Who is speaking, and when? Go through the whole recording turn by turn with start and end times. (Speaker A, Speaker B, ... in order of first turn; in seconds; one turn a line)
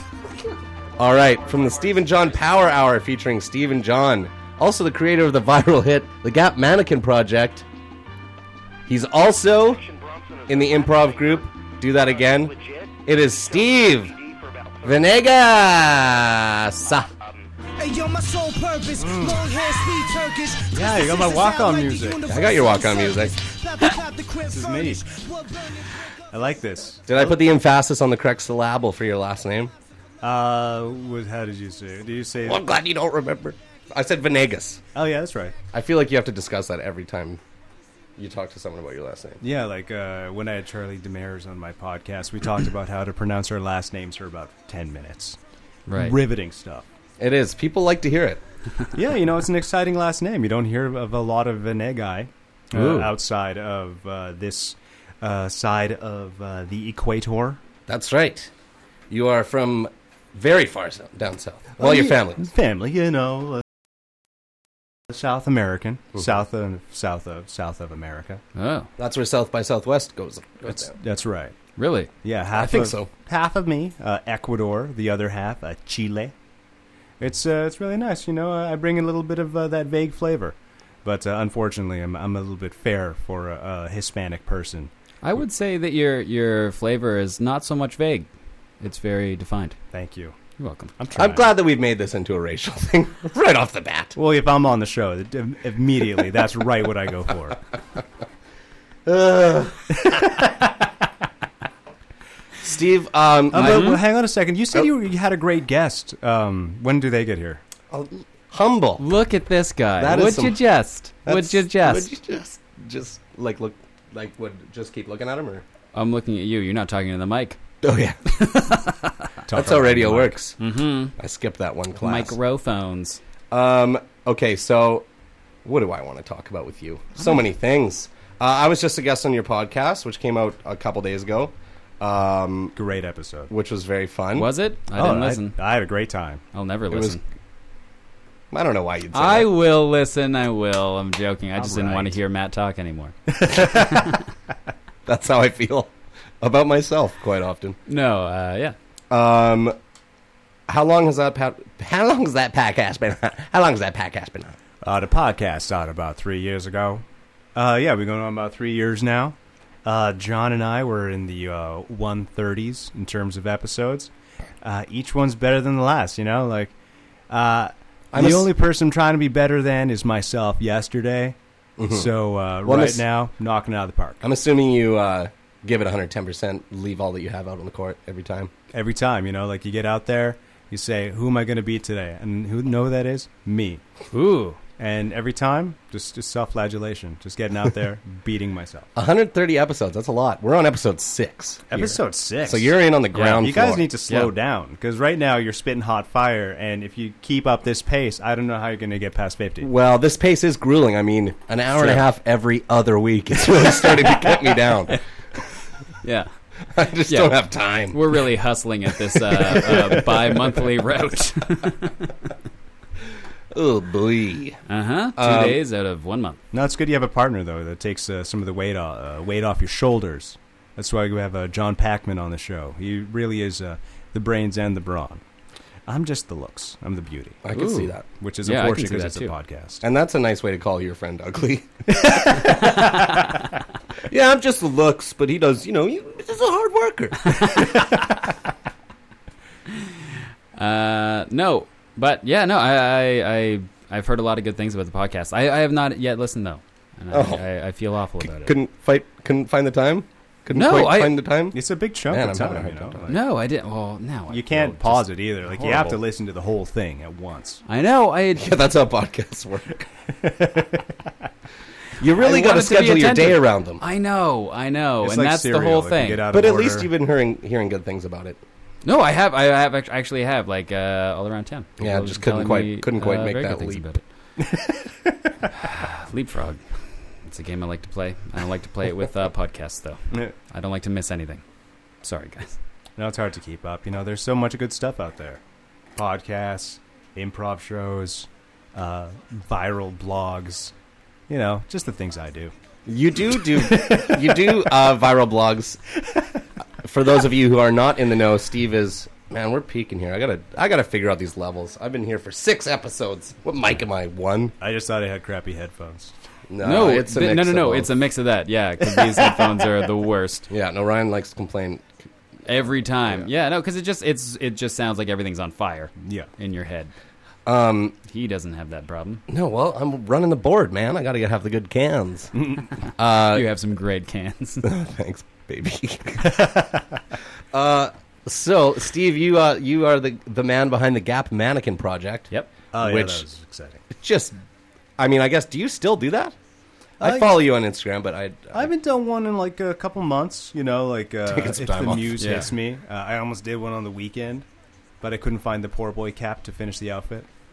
Speaker A: 1.0-7.6
Speaker A: 8.9-9.9
Speaker A: 10.5-14.1
Speaker A: 14.8-17.1
Speaker B: 17.8-26.1
Speaker C: 19.0-19.4
Speaker C: 20.7-22.2
Speaker A: 22.3-23.3
Speaker C: 24.5-25.0
Speaker C: 26.3-27.3
Speaker A: 27.1-29.7
Speaker C: 30.2-32.7
Speaker A: 32.5-34.8
Speaker C: 34.9-35.5
Speaker A: 35.7-37.4
Speaker A: 38.2-39.4
Speaker C: 39.4-45.4
Speaker D: 45.9-46.2
Speaker C: 45.9-46.9
Speaker A: 47.2-48.4
Speaker C: 48.9-57.6
Speaker D: 52.7-53.1
Speaker A: 57.9-58.5
Speaker A: 59.1-62.4
Speaker C: 61.8-63.6
Speaker C: 65.1-68.4
Speaker D: 68.5-68.9
Speaker A: 69.0-70.9
Speaker C: 70.7-71.5
Speaker D: 71.8-72.1
Speaker C: 72.2-76.3
Speaker A: 72.5-73.1
Speaker C: 77.2-84.9
Speaker D: 85.2-88.3
Speaker D: 88.8-89.8
Speaker C: 89.9-90.4
Speaker D: 90.6-90.9
Speaker C: 91.0-91.5
Speaker A: 91.2-94.2
Speaker C: 94.1-97.6
Speaker A: 99.0-100.1
Speaker C: 100.0-100.7
Speaker A: 102.6-104.0
Speaker C: 103.5-107.6
Speaker D: 103.5-104.0
Speaker A: 107.9-109.0
Speaker D: 109.0-112.1
Speaker A: 110.0-110.6
Speaker A: 111.2-115.6
Speaker D: 115.9-117.6
Speaker A: 117.8-118.2
Speaker D: 118.3-119.2
Speaker C: 119.5-120.4
Speaker A: 119.5-120.6
Speaker D: 120.6-121.1
Speaker A: 121.2-122.3
Speaker D: 122.0-123.2
Speaker A: 123.5-125.0
Speaker A: 125.6-132.7
Speaker C: 132.7-133.5
Speaker A: 133.5-134.5
Speaker D: 134.3-135.6
Speaker C: 134.9-136.4
Speaker D: 136.5-137.2
Speaker A: 136.9-137.2
Speaker A: 138.5-139.5
Speaker D: 139.1-144.2
Speaker C: 141.6-142.2
Speaker A: 145.1-147.8
Speaker D: 147.9-148.8
Speaker A: 149.1-149.7
Speaker A: 150.7-154.6
Speaker C: 154.8-164.1
Speaker C: 164.6-166.7
Speaker C: 167.3-171.3
Speaker A: 168.1-168.5
Speaker A: 171.8-172.1
Speaker C: 171.9-174.2
Speaker A: 172.6-173.0
Speaker A: 174.2-178.5
Speaker C: 178.7-183.8
Speaker D: 184.1-184.6
Speaker C: 184.8-188.9
Speaker A: 188.9-193.8
Speaker C: 191.7-199.7
Speaker D: 193.1-193.4
Speaker A: 199.6-205.0
Speaker D: 206.0-206.3
Speaker A: 206.7-208.0
Speaker D: 207.1-207.4
Speaker D: 207.9-212.1
Speaker A: 209.5-209.9
Speaker A: 213.5-214.6
Speaker D: 214.7-216.4
Speaker A: 215.2-215.6
Speaker C: 216.5-225.2
Speaker C: 225.9-227.4
Speaker A: 227.4-228.0
Speaker D: 227.5-229.3
Speaker C: 228.2-229.8
Speaker A: 229.8-232.6
Speaker C: 231.9-232.7
Speaker D: 232.4-233.4
Speaker A: 234.1-237.8
Speaker D: 240.6-248.5
Speaker A: 247.1-247.4
Speaker A: 248.2-251.6
Speaker D: 250.5-251.1
Speaker C: 251.5-253.2
Speaker A: 252.1-253.1
Speaker D: 253.1-256.0
Speaker C: 254.3-257.6
Speaker D: 257.6-258.5
Speaker A: 258.4-259.9
Speaker C: 260.2-260.9
Speaker A: 262.0-263.8
Speaker D: 262.2-266.2
Speaker C: 265.0-266.9
Speaker A: 266.3-268.4
Speaker D: 268.8-274.0
Speaker A: 271.8-273.8
Speaker C: 274.4-275.3
Speaker D: 275.5-276.6
Speaker D: 277.2-281.4
Speaker D: 282.0-282.6
Speaker C: 283.0-285.4
Speaker C: 285.9-290.7
Speaker C: 291.3-292.5
Speaker A: 292.9-295.8
Speaker C: 293.5-294.6
Speaker A: 296.8-304.5
Speaker C: 304.6-306.1
Speaker A: 306.5-307.9
Speaker D: 306.6-310.5
Speaker A: 310.5-311.9
Speaker D: 312.5-316.9
Speaker C: 316.0-316.3
Speaker A: 317.4-317.9
Speaker D: 318.1-319.2
Speaker A: 319.3-322.3
Speaker C: 322.4-322.6
Speaker A: 323.0-323.5
Speaker D: 323.3-324.7
Speaker A: 324.6-326.5
Speaker C: 326.2-326.8
Speaker A: 327.5-333.2
Speaker C: 332.7-333.8
Speaker A: 333.9-334.4
Speaker A: 335.0-336.3
Speaker C: 337.0-337.4
Speaker A: 337.0-338.7
Speaker C: 338.5-344.4
Speaker A: 341.3-342.1
Speaker D: 342.2-342.5
Speaker C: 345.0-347.3